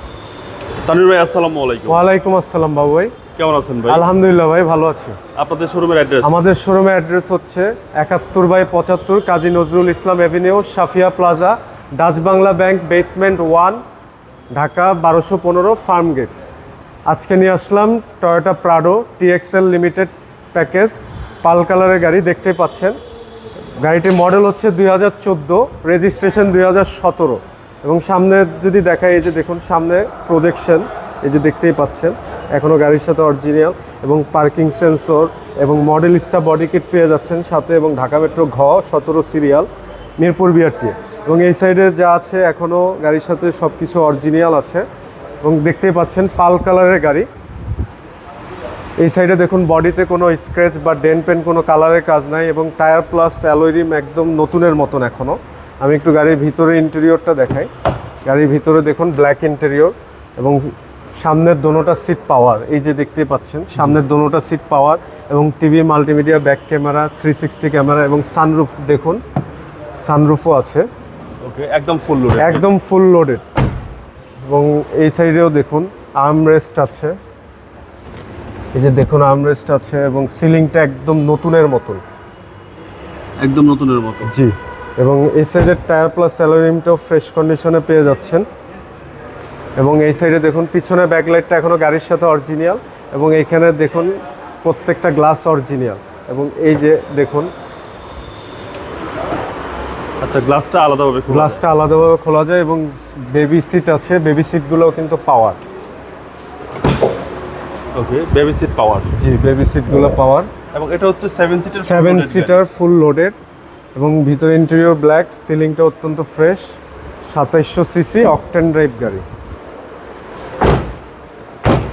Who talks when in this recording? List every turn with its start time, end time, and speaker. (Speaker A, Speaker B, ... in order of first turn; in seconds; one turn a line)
Speaker A: 0.8-2.0
Speaker B: 1.9-3.1
Speaker A: 3.4-4.0
Speaker B: 3.9-5.2
Speaker A: 5.3-6.4
Speaker B: 6.2-13.8
Speaker B: 14.5-16.3
Speaker B: 17.1-23.0
Speaker B: 23.8-39.7
Speaker B: 40.2-44.9
Speaker B: 45.4-47.3
Speaker B: 49.0-57.7
Speaker B: 58.2-69.2
Speaker B: 70.0-70.9
Speaker A: 71.4-72.6
Speaker B: 72.4-73.4
Speaker B: 74.5-77.2
Speaker B: 78.7-82.0
Speaker A: 83.4-84.3
Speaker B: 84.2-88.5
Speaker B: 89.8-97.5
Speaker A: 100.2-101.6
Speaker B: 101.3-105.6
Speaker A: 107.9-109.1
Speaker B: 109.2-110.5
Speaker A: 110.7-112.6
Speaker B: 111.8-113.3
Speaker B: 113.9-119.2